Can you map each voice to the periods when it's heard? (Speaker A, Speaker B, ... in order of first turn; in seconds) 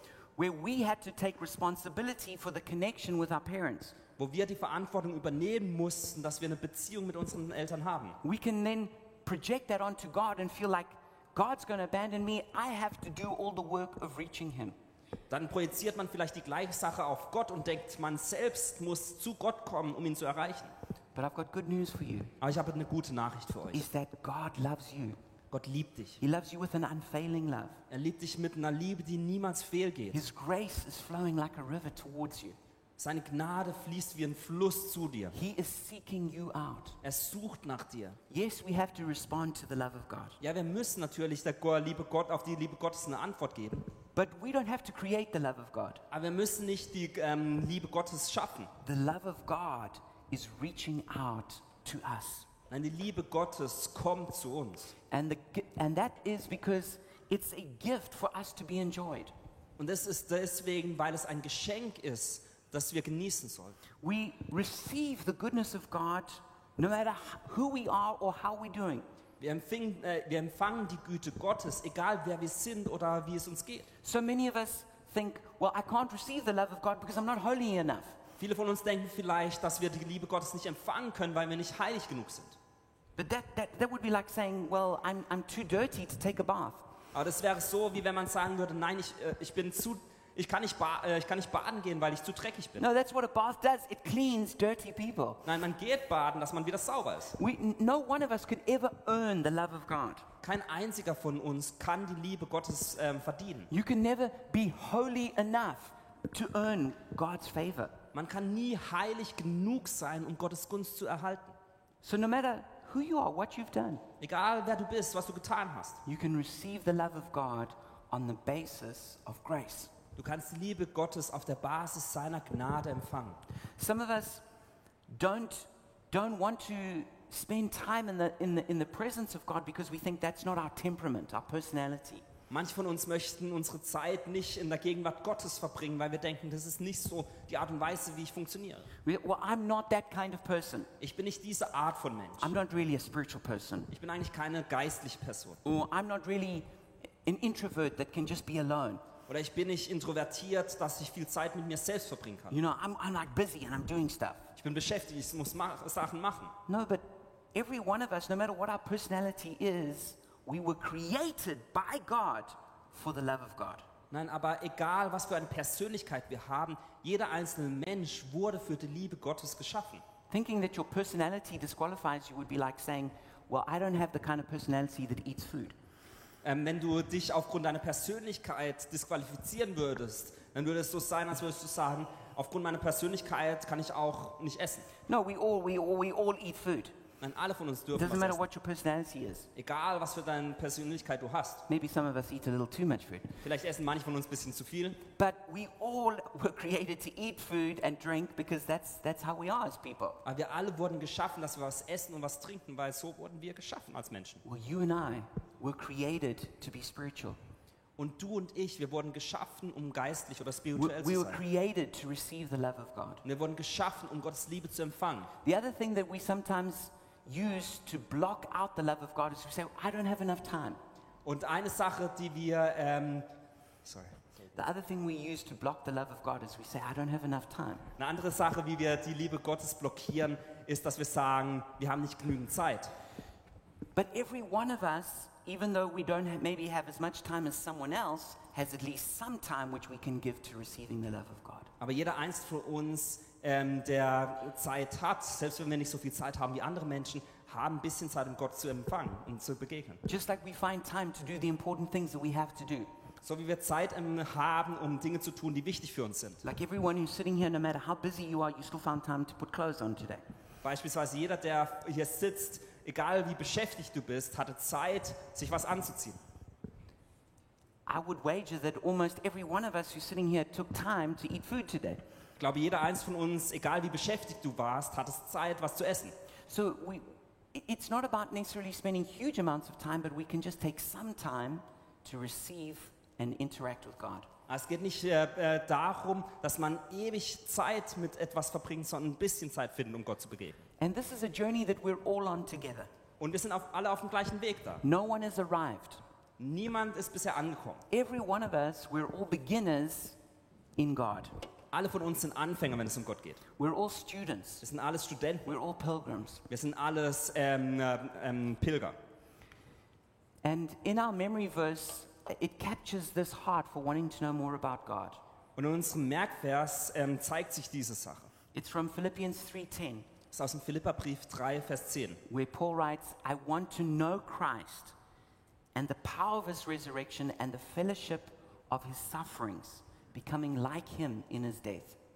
Speaker A: 0.4-4.0, 8.2-14.8, 21.1-22.3, 23.7-25.2, 26.2-27.8, 30.1-32.6, 35.3-37.0, 38.3-40.4, 44.1-46.0, 48.8-52.5, 55.1-59.3, 64.0-69.0, 74.0-78.2, 83.2-86.8, 92.8-95.5, 97.4-100.3, 103.7-108.0, 112.0-114.0, 116.1-119.9, 123.8-124.4, 125.1-132.2, 139.1-140.9, 142.4-143.9, 145.7-146.7, 147.2-149.0, 152.5-154.5, 156.7-163.8, 170.3-175.8, 185.1-186.9, 187.9-189.5, 191.7-193.4, 195.2-200.2, 204.4-207.4, 210.8-213.2, 215.4-220.8, 224.5-227.9, 233.9-241.7, 250.1-252.9, 256.4-260.2, 267.9-272.0, 276.5-284.3, 290.8-292.9, 294.8-296.0, 297.9-300.2, 300.8-301.4, 303.6-304.6, 305.5-306.4, 310.4-315.2, 318.5-320.1, 322.3-324.9, 325.8-332.0
Speaker B: 4.2-8.2, 15.3-20.7, 22.4-23.9, 25.5-26.2, 27.9-30.2, 33.0-35.4, 37.0-38.2, 40.4-43.9, 46.1-48.7, 52.7-55.0, 59.8-63.8, 69.4-73.9, 78.4-82.6, 87.1-92.8, 95.5-97.4, 100.4-103.7, 108.1-111.5, 114.2-116.0, 120.2-123.4, 132.5-138.9, 141.0-142.5, 143.9-145.6, 149.3-152.6, 154.6-156.6, 164.1-170.0, 176.4-184.9, 187.2-188.4, 189.6-191.7, 193.4-195.0, 200.2-204.4, 208.0-211.4, 213.2-215.3, 221.2-223.3, 223.8-224.2, 228.0-232.9, 241.8-250.0, 253.2-256.4, 260.6-266.2, 272.4-276.1, 284.5-290.7, 293.2-294.8, 296.4-297.8, 301.7-303.4, 304.6-305.5, 306.5-309.0, 315.6-318.3, 320.3-322.2